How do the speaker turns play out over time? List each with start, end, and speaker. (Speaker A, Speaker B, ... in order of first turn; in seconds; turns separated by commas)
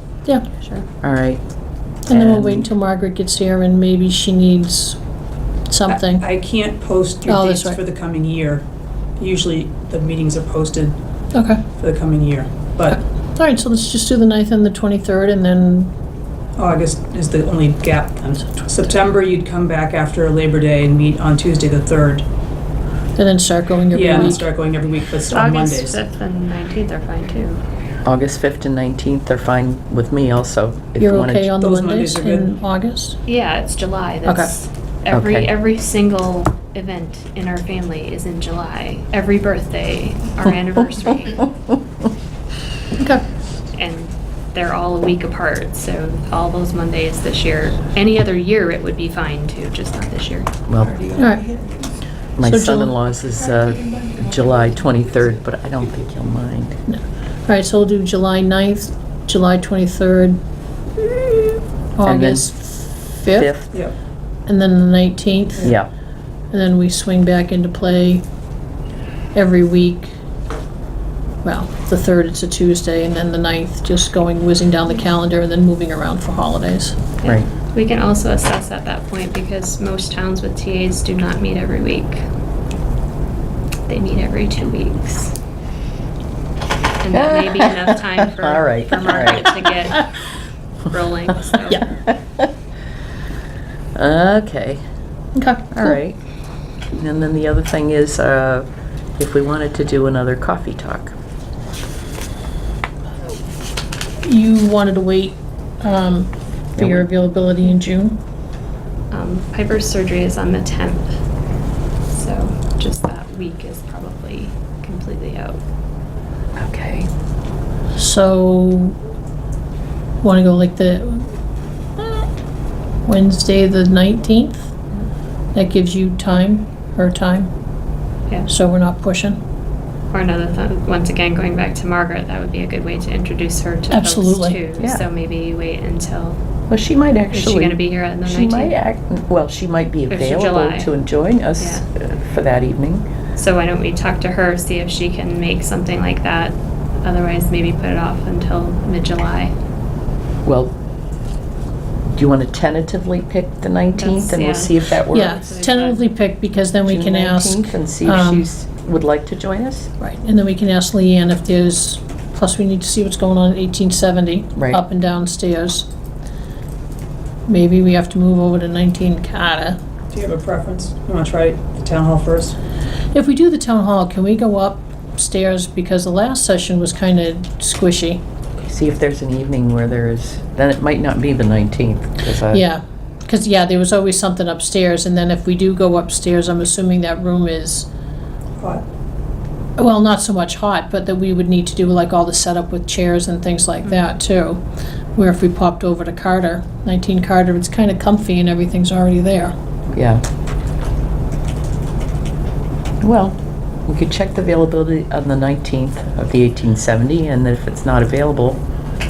Speaker A: 1.0-1.4, Speaker B: 2.0-5.0, Speaker A: 2.1-2.7, Speaker B: 5.7-6.2, Speaker C: 5.8-8.6, Speaker B: 7.2-7.8, Speaker C: 9.2-11.0, Speaker B: 11.3-11.6, Speaker C: 11.8-13.0, Speaker B: 13.3-15.9, Speaker C: 16.6-22.2, Speaker B: 23.2-24.4, Speaker C: 23.9-26.0, Speaker D: 25.3-27.6, Speaker A: 28.0-31.5, Speaker B: 31.0-33.2, Speaker C: 31.6-32.5, Speaker D: 33.2-41.5, Speaker B: 34.2-34.5, Speaker A: 35.1-35.5, Speaker B: 43.0-43.2, Speaker D: 43.8-50.5, Speaker A: 50.7-51.1, Speaker B: 51.1-51.5, Speaker A: 52.4-56.8, Speaker B: 52.4-53.0, Speaker B: 56.9-60.4, Speaker B: 61.0-63.5, Speaker A: 62.0-62.5, Speaker A: 63.4-63.7, Speaker B: 64.5-65.7, Speaker A: 65.6-65.9, Speaker B: 66.5-68.2, Speaker B: 69.3-70.1, Speaker B: 71.4-77.0, Speaker D: 77.2-82.2, Speaker D: 83.9-85.3, Speaker D: 87.0-90.0, Speaker A: 87.1-89.5, Speaker D: 90.8-91.8, Speaker A: 91.5-92.5, Speaker A: 93.9-94.8, Speaker B: 95.3-96.0, Speaker A: 95.7-96.2, Speaker A: 96.9-98.7, Speaker A: 99.2-101.1, Speaker B: 104.2-108.2, Speaker A: 106.8-107.0, Speaker D: 109.1-111.2, Speaker D: 112.1-115.6, Speaker A: 116.6-117.1, Speaker B: 118.0-119.0, Speaker B: 120.2-121.3, Speaker B: 122.0-122.3, Speaker B: 123.0-124.7, Speaker B: 125.5-127.5, Speaker B: 128.4-129.4, Speaker D: 130.1-136.4, Speaker B: 133.9-134.6, Speaker A: 134.8-135.0, Speaker A: 136.7-143.1, Speaker D: 137.3-138.7, Speaker D: 140.1-140.9, Speaker D: 141.6-141.8, Speaker D: 143.4-149.5, Speaker A: 150.4-150.7, Speaker A: 152.2-155.4, Speaker D: 153.9-156.0, Speaker B: 155.1-158.5, Speaker A: 156.8-159.9, Speaker B: 160.0-165.8, Speaker A: 164.6-164.8, Speaker B: 167.5-169.8, Speaker C: 170.1-172.6, Speaker B: 173.1-178.2, Speaker A: 178.6-182.6, Speaker B: 182.5-187.9, Speaker C: 188.6-188.8, Speaker B: 189.8-194.6, Speaker B: 195.1-199.5, Speaker A: 199.9-200.2, Speaker A: 203.0-208.6